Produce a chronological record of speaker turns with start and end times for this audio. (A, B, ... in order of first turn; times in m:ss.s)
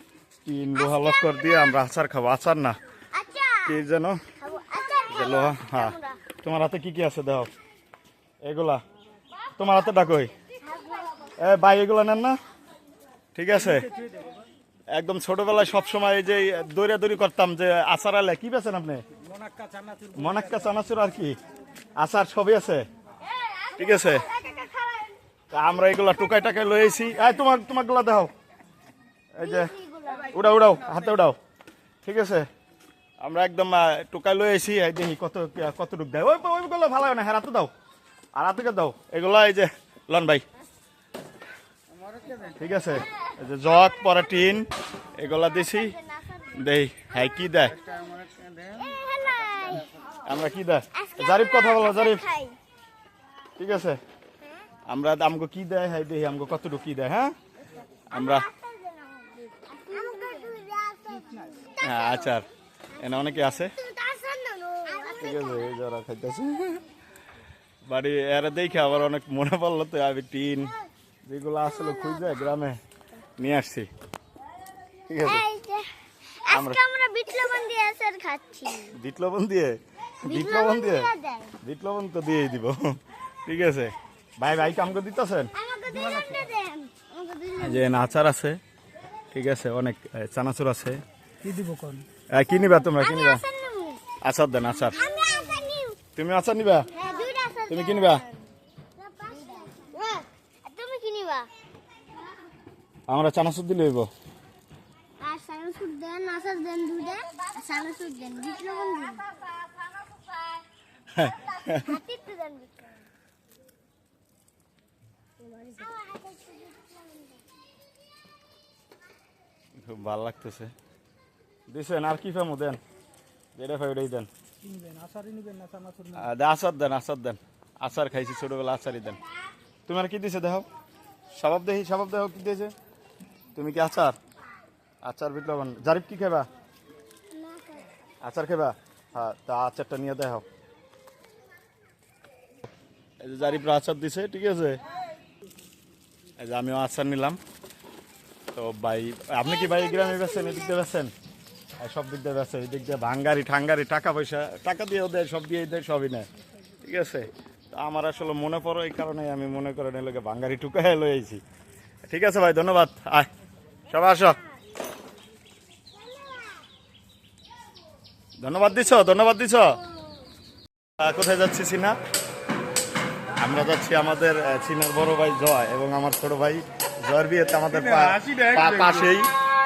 0:00.4-0:02.8 A
0:00.8-0:01.7 B
0:03.1-0:03.8 B
0:03.6-0:04.2 A
0:04.4-0:06.2 B
0:05.1-0:07.5 A
0:08.4-0:08.8 A
0:09.6-0:10.3 A
0:10.6-0:11.3 B
0:11.4-0:12.4 A
0:13.4-0:13.9 A
0:14.9-0:19.0 A
0:19.6-0:20.0 C
0:20.1-0:21.4 A
0:22.0-0:22.8 A
0:23.8-0:24.2 A
0:24.3-0:24.7 B
0:25.5-0:28.3 A
0:29.4-0:29.7 A
0:29.4-0:30.3 B
0:30.3-0:31.4 A
0:32.0-0:32.5 A
0:33.2-0:37.7 A
0:38.3-0:40.4 A
0:42.6-0:47.8 A
0:45.7-0:46.3 B
0:48.4-0:49.9 B
0:50.2-0:52.2 A
0:50.9-0:52.6 B
0:53.6-0:54.0 A
0:54.9-0:57.3 A
0:58.1-0:58.5 A
0:58.1-1:02.4 B
1:01.8-1:03.7 A
1:03.0-1:05.8 B
1:05.2-1:06.8 A
1:07.9-1:10.7 A
1:11.2-1:12.8 A
1:11.6-1:12.4 B
1:13.4-1:13.9 A
1:15.1-1:15.4 A
1:15.2-1:19.0 B
1:16.5-1:16.8 A
1:18.9-1:21.1 A
1:20.2-1:21.6 B
1:21.6-1:25.5 A
1:25.5-1:28.0 B
1:27.6-1:28.6 A
1:29.3-1:31.0 A
1:31.4-1:32.0 C
1:32.3-1:33.4 A
1:32.6-1:34.1 B
1:34.2-1:35.0 A
1:34.7-1:36.0 B
1:36.1-1:36.9 A
1:36.9-1:38.4 B
1:37.7-1:38.2 A
1:39.0-1:41.5 B
1:43.1-1:44.1 A
1:45.2-1:49.4 B
1:51.1-1:51.9 A
1:51.6-1:53.1 B
1:55.4-1:57.4 B
1:59.8-2:00.7 A
2:01.7-2:02.8 A
2:03.6-2:04.3 A
2:04.6-2:06.2 C
2:06.1-2:09.2 A
2:09.8-2:10.6 A
2:11.3-2:12.7 A
2:13.5-2:14.2 A
2:15.0-2:16.5 A
2:17.3-2:17.8 B
2:18.2-2:20.4 A
2:23.2-2:24.8 A
2:26.4-2:27.4 A
2:28.5-2:31.1 A
2:29.4-2:30.8 B
2:31.8-2:36.2 A
2:36.8-2:41.4 A
2:42.1-2:43.3 A
2:43.9-2:44.4 A
2:48.4-2:49.8 A
2:51.0-2:52.0 A
2:53.4-2:59.3 A
2:57.8-2:59.0 C